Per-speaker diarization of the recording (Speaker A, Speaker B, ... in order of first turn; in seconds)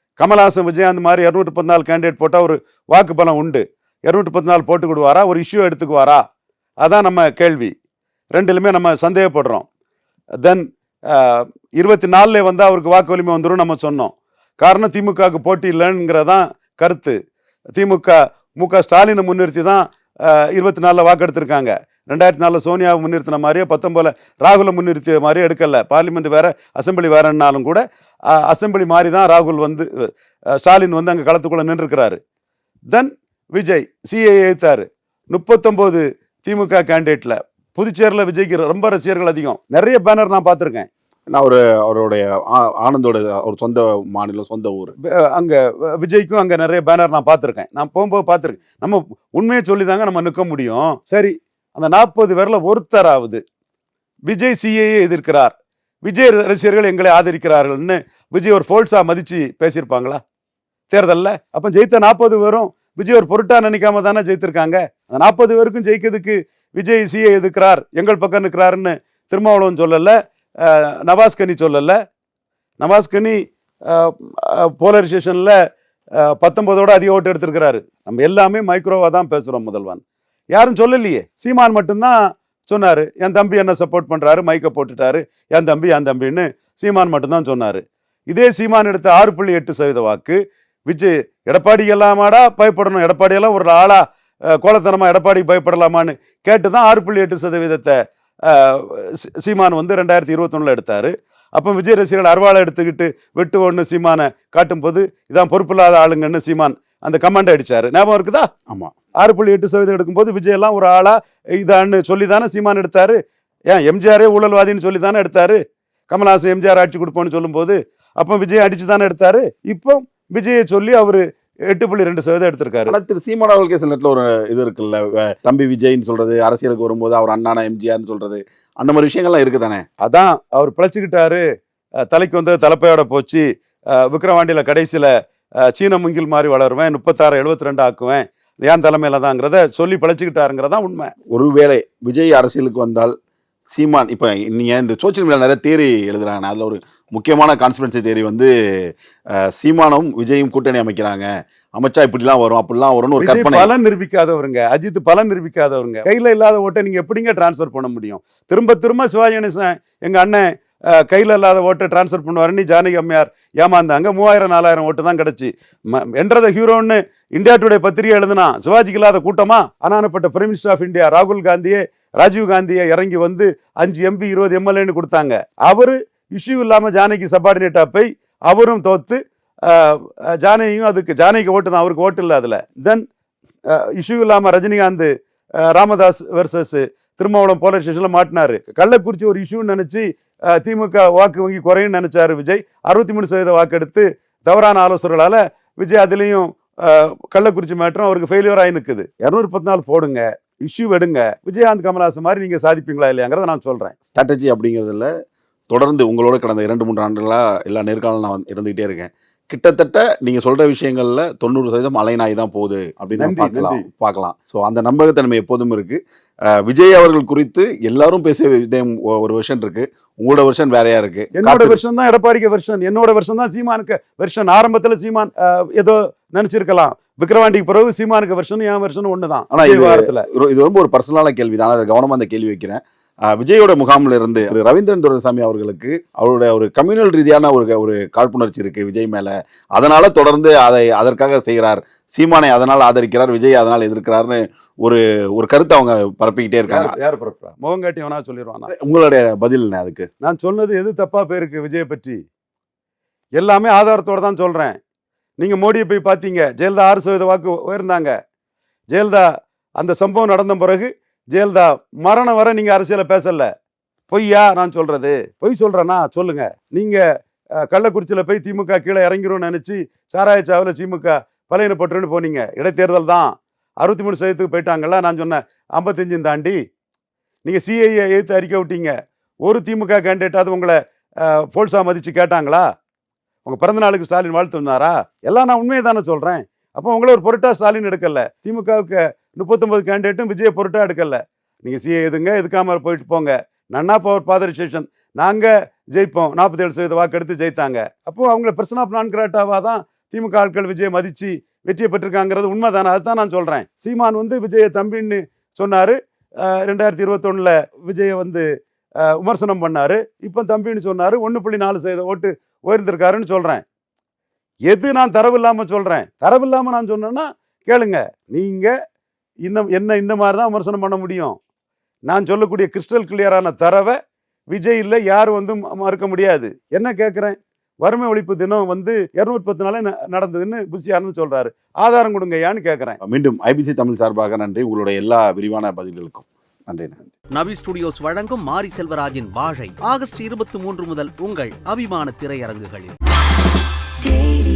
Speaker A: 0.2-6.2, 6.8-7.7, 8.3-9.6, 10.4-17.1, 17.8-27.8, 28.3-32.2, 32.9-40.9, 45.0-53.4, 54.3-55.5, 56.0-60.2, 60.9-72.0, 72.8-75.6, 76.2-82.2, 82.7-108.5, 109.2-113.2, 113.7-123.0, 130.0-131.4, 132.1-133.4, 134.0-135.1, 135.7-141.1, 153.2-183.0, 183.7-204.0, 213.2-213.8, 221.3-230.2, 246.7-248.7, 250.2-252.2, 253.4-254.8, 255.4-258.1, 258.9-259.3, 259.8-263.5, 264.1-267.0, 267.6-276.6, 277.4-278.9, 279.4-282.6, 283.4-308.5, 309.0-313.6, 314.7-318.7, 319.4-321.4, 322.1-324.0, 324.5-333.0
Speaker B: 41.3-44.9, 122.9-129.8, 141.3-143.1, 143.7-153.7, 204.1-205.1, 205.7-221.8, 229.5-247.0, 248.7-250.1, 333.0-337.1
Speaker C: 337.4-342.9